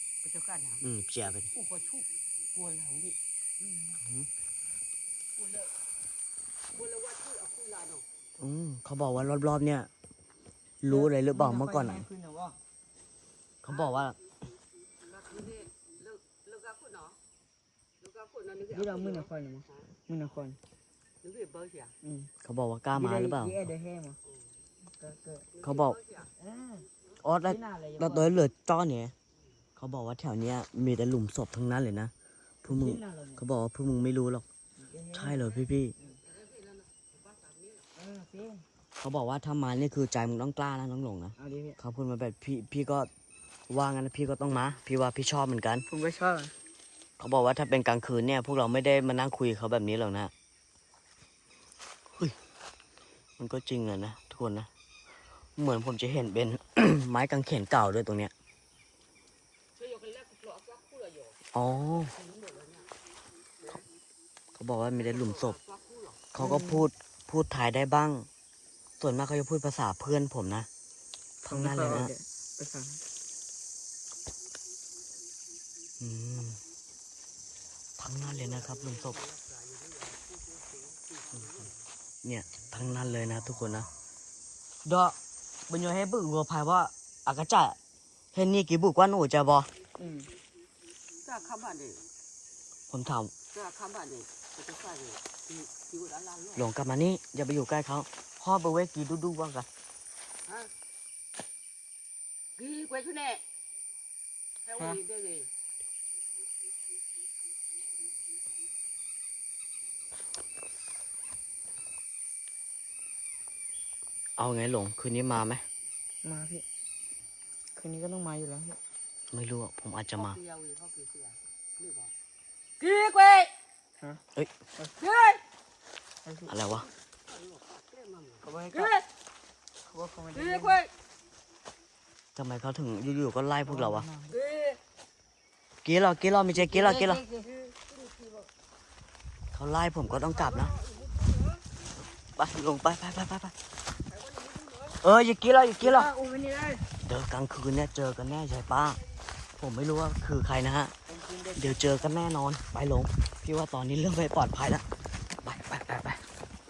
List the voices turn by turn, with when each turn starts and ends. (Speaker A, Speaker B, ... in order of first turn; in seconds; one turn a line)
Speaker A: 0.2-3.2
Speaker B: 0.8-1.5
Speaker C: 3.6-3.9
Speaker A: 5.3-5.8
Speaker A: 6.7-8.1
Speaker B: 8.4-9.9
Speaker B: 10.8-12.1
Speaker C: 10.9-12.6
Speaker B: 13.6-14.2
Speaker A: 13.7-14.0
Speaker A: 15.1-17.2
Speaker A: 18.0-19.9
Speaker C: 18.7-20.6
Speaker A: 21.2-22.0
Speaker C: 22.0-22.3
Speaker B: 22.4-23.7
Speaker C: 22.9-24.2
Speaker A: 24.2-24.6
Speaker C: 24.9-25.5
Speaker A: 25.5-26.3
Speaker B: 25.6-26.0
Speaker C: 26.4-26.9
Speaker B: 27.2-29.1
Speaker C: 27.4-28.4
Speaker A: 29.3-29.6
Speaker B: 29.8-32.1
Speaker B: 32.6-34.5
Speaker C: 32.7-33.4
Speaker C: 34.8-36.2
Speaker B: 35.1-36.0
Speaker A: 36.0-37.9
Speaker C: 38.0-38.6
Speaker B: 39.0-43.1
Speaker C: 41.4-41.8
Speaker B: 43.7-45.9
Speaker C: 45.9-46.5
Speaker B: 47.2-50.3
Speaker B: 52.1-52.4
Speaker B: 53.4-54.7
Speaker B: 55.6-58.3
Speaker A: 59.8-61.4
Speaker B: 61.5-62.1
Speaker A: 62.0-62.9
Speaker A: 63.6-63.9
Speaker B: 64.5-65.6
Speaker A: 65.0-66.2
Speaker B: 66.3-68.3
Speaker C: 66.4-66.9
Speaker B: 69.0-70.7
Speaker B: 71.5-72.1
Speaker C: 71.5-73.0
Speaker B: 76.0-76.6
Speaker B: 78.0-79.2
Speaker A: 78.1-81.9
Speaker B: 82.2-83.9
Speaker B: 84.8-85.2
Speaker B: 85.7-87.8
Speaker B: 88.3-89.7
Speaker C: 90.0-90.3
Speaker A: 91.2-92.0
Speaker B: 92.9-93.3
Speaker A: 93.5-96.7
Speaker B: 96.6-99.7
Speaker A: 100.5-100.7
Speaker A: 102.6-103.5
Speaker A: 104.6-105.5
Speaker B: 114.4-115.7
Speaker C: 116.2-116.7
Speaker C: 117.7-118.8
Speaker B: 119.3-120.4
Speaker A: 120.2-122.1
Speaker A: 122.8-123.5
Speaker A: 125.0-125.4
Speaker C: 126.2-126.7
Speaker B: 126.5-126.9
Speaker A: 126.7-129.1
Speaker C: 128.4-129.0
Speaker C: 129.8-130.8
Speaker A: 130.3-130.9
Speaker B: 132.4-134.1
Speaker C: 133.7-134.4
Speaker A: 134.3-134.8
Speaker B: 135.8-137.2
Speaker C: 136.6-137.5
Speaker A: 136.8-138.5
Speaker B: 139.5-140.8
Speaker A: 140.0-141.6
Speaker B: 142.3-143.6
Speaker A: 144.1-145.0
Speaker B: 145.0-146.1
Speaker C: 145.8-146.9
Speaker B: 147.0-149.0
Speaker B: 149.6-151.0
Speaker C: 151.1-152.1
Speaker B: 151.6-156.2